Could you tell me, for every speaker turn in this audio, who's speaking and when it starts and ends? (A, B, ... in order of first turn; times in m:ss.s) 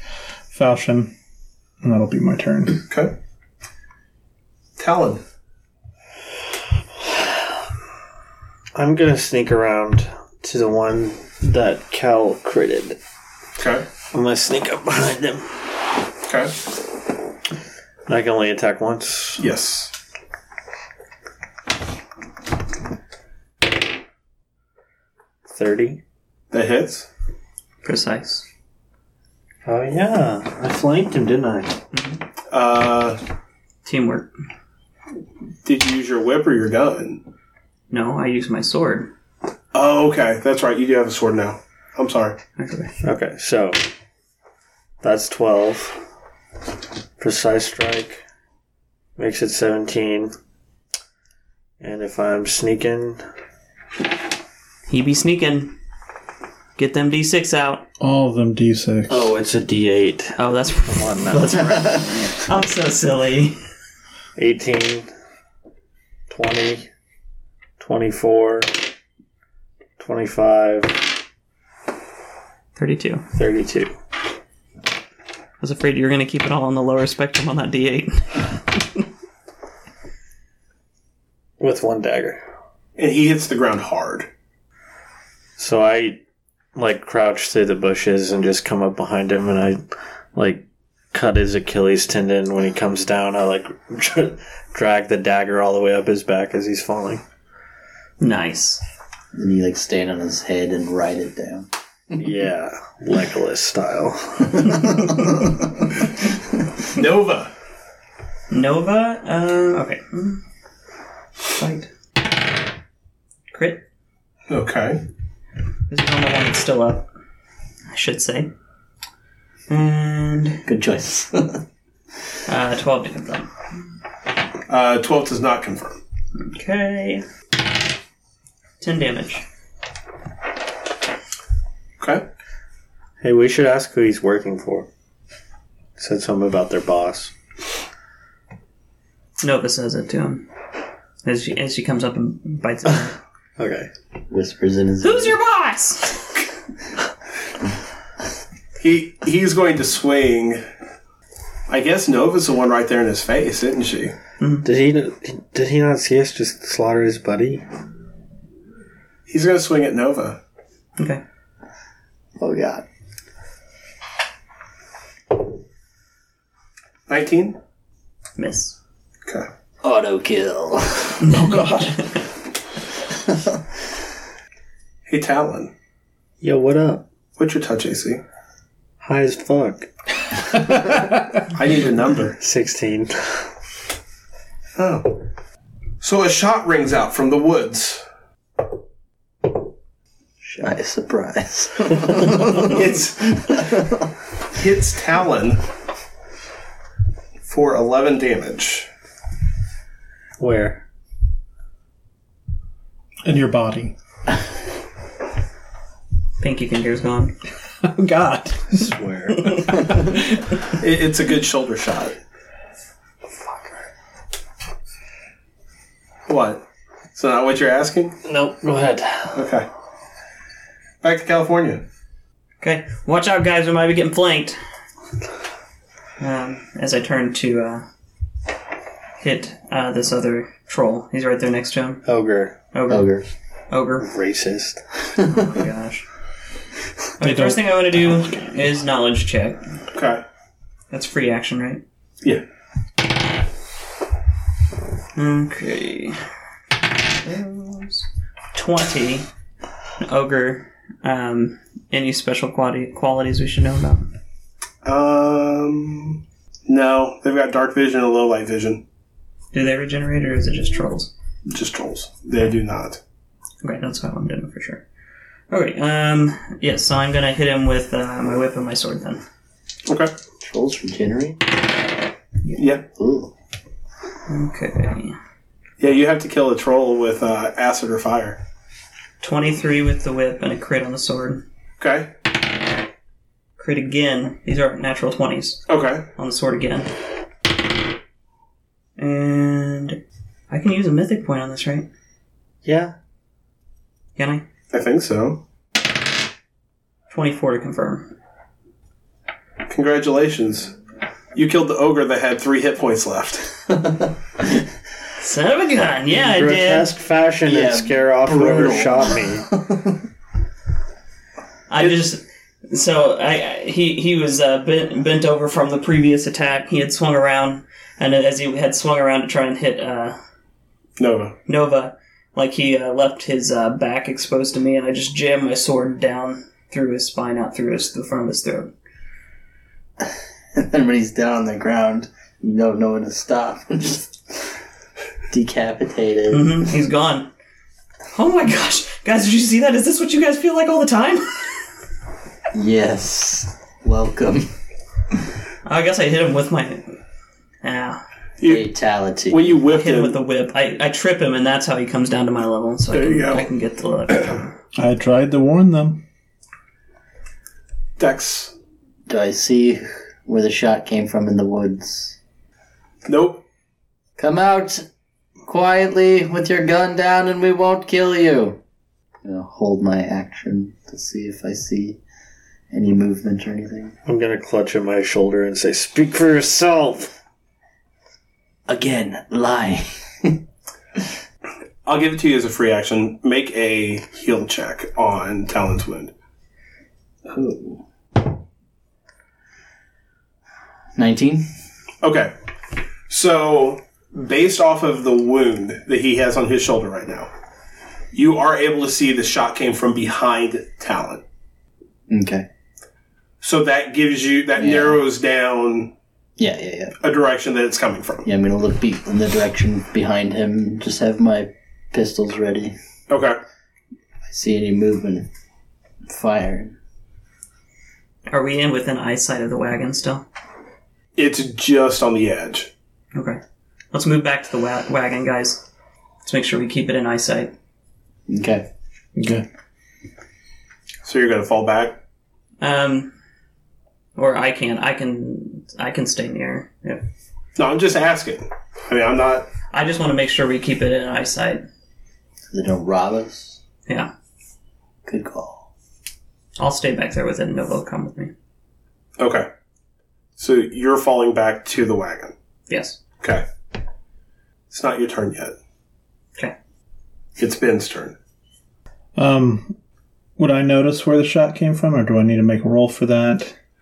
0:00.5-0:01.1 A
0:01.8-0:02.8 A
0:02.9-0:03.2 B
0:04.8-0:05.2 B
0:08.8-0:13.0 C
0:13.6-0:13.9 B
0:14.1-0:15.6 C
0:16.3-0:16.5 B
0:18.1-0:19.4 C
0:19.4-0:19.9 B
0:25.5-0:26.0 C
0:26.5-0:27.1 B
0:27.8-0:28.4 D
0:29.7-0:31.8 C
0:31.9-0:32.2 D
0:32.5-0:33.2 B
0:33.8-0:34.3 D
0:35.6-0:37.2 B
0:37.9-0:39.1 D
0:39.7-0:42.4 B
0:42.6-0:42.9 D
0:43.0-0:43.8 C
0:45.0-0:46.0 C
0:47.2-0:48.2 C
0:49.2-0:50.4 C
0:51.8-0:53.2 C
0:54.9-0:55.7 D
0:56.8-0:57.8 D
0:58.0-0:59.3 A
0:59.1-1:01.8 C
1:00.4-1:03.6 D
1:04.4-1:05.1 C
1:06.3-1:06.9 C
1:07.8-1:08.8 C
1:10.0-1:11.1 C
1:12.8-1:13.2 D
1:13.4-1:13.9 C
1:15.6-1:19.0 D
1:21.6-1:22.4 C
1:23.0-1:24.3 B
1:25.6-1:26.2 C
1:26.8-1:29.8 C
1:30.4-1:37.2 C
1:38.2-1:38.8 D
1:39.3-1:41.7 E
1:42.2-1:45.3 C
1:46.9-1:47.5 B
1:48.5-1:50.4 D
1:51.5-1:51.9 D
1:53.5-1:53.8 D
1:54.5-1:55.0 B
1:55.9-1:57.1 D
1:57.9-1:58.5 D
1:59.7-2:00.6 D
2:00.7-2:01.6 E
2:02.5-2:03.5 D
2:04.7-2:06.0 B
2:06.4-2:07.2 D
2:08.8-2:09.4 D
2:12.0-2:12.2 B
2:13.2-2:14.9 C
2:16.0-2:17.3 C
2:19.4-2:20.5 D
2:21.2-2:23.2 D
2:23.6-2:23.9 C
2:24.3-2:25.4 E
2:25.0-2:26.4 D
2:28.8-2:30.6 B
2:31.7-2:34.2 B
2:34.4-2:34.7 D
2:34.6-2:37.6 C
2:39.3-2:40.4 B
2:41.0-2:41.2 D
2:42.4-2:42.9 E
2:47.1-2:47.6 B
2:48.4-2:48.8 D
2:49.8-2:51.3 E
2:51.3-2:52.2 D
2:51.3-2:52.1 A
2:53.3-2:53.6 E
2:55.1-2:55.7 B
2:56.4-2:57.1 C
2:57.4-2:58.2 B
2:59.0-2:59.9 C
3:00.5-3:00.9 C
3:01.5-3:02.4 B
3:02.4-3:03.5 C
3:04.8-3:05.2 B
3:06.0-3:08.0 B
3:10.4-3:14.1 E
3:12.6-3:13.7 B
3:14.5-3:15.6 B
3:17.5-3:18.9 B
3:20.4-3:20.8 C
3:23.2-3:23.9 A
3:26.4-3:27.4 D
3:27.8-3:30.6 A
3:28.7-3:29.9 C
3:30.8-3:32.2 B
3:36.3-3:38.2 B
3:38.3-3:39.4 C
3:39.4-3:39.7 B
3:41.0-3:41.8 B
3:42.6-3:44.6 D
3:46.2-3:47.9 D
3:49.2-3:52.1 D
3:52.1-3:52.6 C
3:52.7-3:53.1 D
3:52.9-3:53.3 E
3:53.7-3:54.1 D
3:54.0-3:54.8 C
3:55.2-3:56.0 D
3:57.2-3:59.6 D
3:57.2-3:58.2 A
3:59.9-4:00.2 B
4:00.9-4:01.8 D
4:05.2-4:06.2 D
4:07.1-4:09.3 D
4:10.0-4:14.1 D
4:14.8-4:18.8 B
4:19.5-4:21.1 D
4:21.5-4:23.0 B
4:23.6-4:24.8 D
4:25.5-4:29.2 D
4:29.9-4:30.1 B
4:30.4-4:31.5 E
4:32.6-4:32.8 B
4:32.8-4:33.3 E
4:34.3-4:35.2 D
4:35.8-4:38.4 B
4:39.2-4:41.4 D
4:41.8-4:42.1 B
4:43.6-4:46.9 D
4:45.7-4:46.0 B
4:49.0-4:51.9 D
4:52.6-4:52.9 C
4:54.2-4:54.5 D
4:54.7-4:55.4 B
4:57.1-4:58.1 D
4:59.7-5:00.7 B
5:01.4-5:03.5 B
5:05.2-5:06.9 D
5:06.1-5:09.5 C
5:07.5-5:10.0 E
5:11.7-5:20.2 D
5:21.0-5:21.4 B
5:21.5-5:28.7 D
5:30.0-5:34.4 E
5:35.3-5:36.6 E
5:36.3-5:37.3 D
5:38.1-5:41.3 D
5:42.5-5:44.5 E
5:45.6-5:47.0 D
5:47.6-5:48.0 D
5:48.4-5:48.7 B
5:48.4-5:49.6 E
5:49.3-5:50.2 B
5:49.7-5:54.5 D
5:52.9-5:53.5 B
5:54.8-5:56.0 A
5:58.0-5:58.5 B
5:59.1-6:02.2 E
6:03.1-6:03.4 B
6:04.2-6:04.9 E
6:05.4-6:08.6 E
6:09.2-6:12.0 E
6:12.7-6:14.0 E
6:14.1-6:17.2 C
6:18.7-6:20.4 E
6:21.8-6:26.1 B
6:27.3-6:27.8 B
6:31.0-6:31.5 E
6:32.0-6:32.3 B
6:33.1-6:37.3 B
6:38.1-6:41.2 B
6:42.1-6:42.5 E
6:43.4-6:45.9 B
6:44.6-6:45.0 E
6:46.4-6:47.0 E
6:47.0-6:48.3 B
6:48.2-6:52.8 E
6:53.1-6:53.4 B
6:54.3-6:55.3 E
6:56.1-6:56.8 E
6:58.3-7:00.2 D
7:01.2-7:02.7 B
7:03.1-7:03.4 D
7:03.9-7:05.6 D
7:06.2-7:07.5 D
7:08.3-7:08.7 E
7:09.2-7:09.4 A
7:11.0-7:12.0 B
7:12.6-7:13.1 D
7:14.2-7:17.0 D
7:17.6-7:19.5 B
7:19.7-7:21.6 D
7:22.5-7:23.6 E
7:25.0-7:25.7 E
7:26.6-7:28.3 D
7:29.2-7:29.5 B
7:30.4-7:32.3 B
7:32.7-7:33.0 D
7:33.2-7:33.5 B
7:34.7-7:35.6 B
7:37.4-7:38.2 B
7:39.2-7:39.8 A
7:40.4-7:43.5 A